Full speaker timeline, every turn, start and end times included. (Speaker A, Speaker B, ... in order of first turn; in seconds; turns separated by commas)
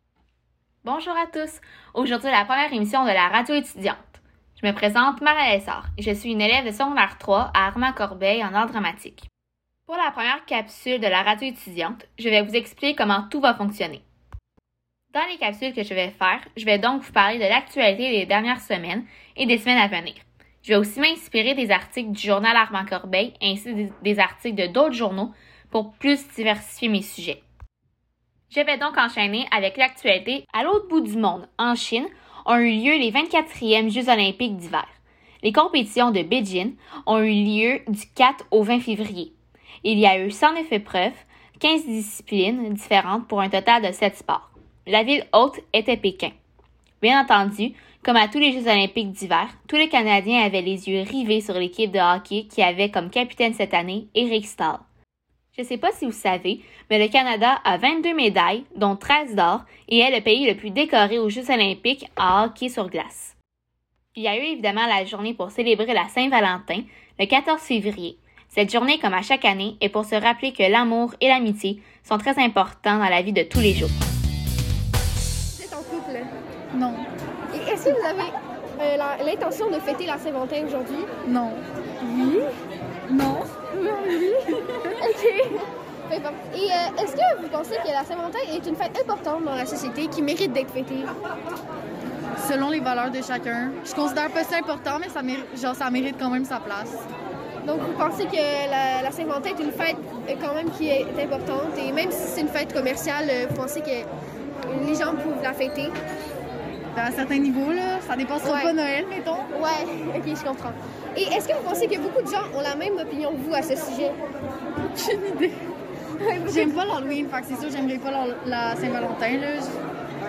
Speaker A: 0.8-9.3, Speaker A: 9.9-14.0, Speaker A: 15.1-27.4, Speaker A: 28.5-46.3, Speaker A: 47.0-54.8, Speaker A: 55.5-63.3, Speaker A: 64.1-73.9, Speaker B: 75.5-76.3, Speaker C: 76.7-77.1, Speaker B: 77.5-81.1, Speaker C: 81.2-82.4, Speaker C: 83.1-83.5, Speaker B: 83.7-91.1, Speaker C: 92.4-97.0, Speaker B: 97.6-104.1, Speaker B: 104.7-105.9, Speaker C: 106.9-109.5, Speaker B: 108.4-108.7, Speaker B: 109.5-114.2, Speaker C: 114.9-115.6, Speaker B: 116.2-116.9, Speaker C: 116.5-119.8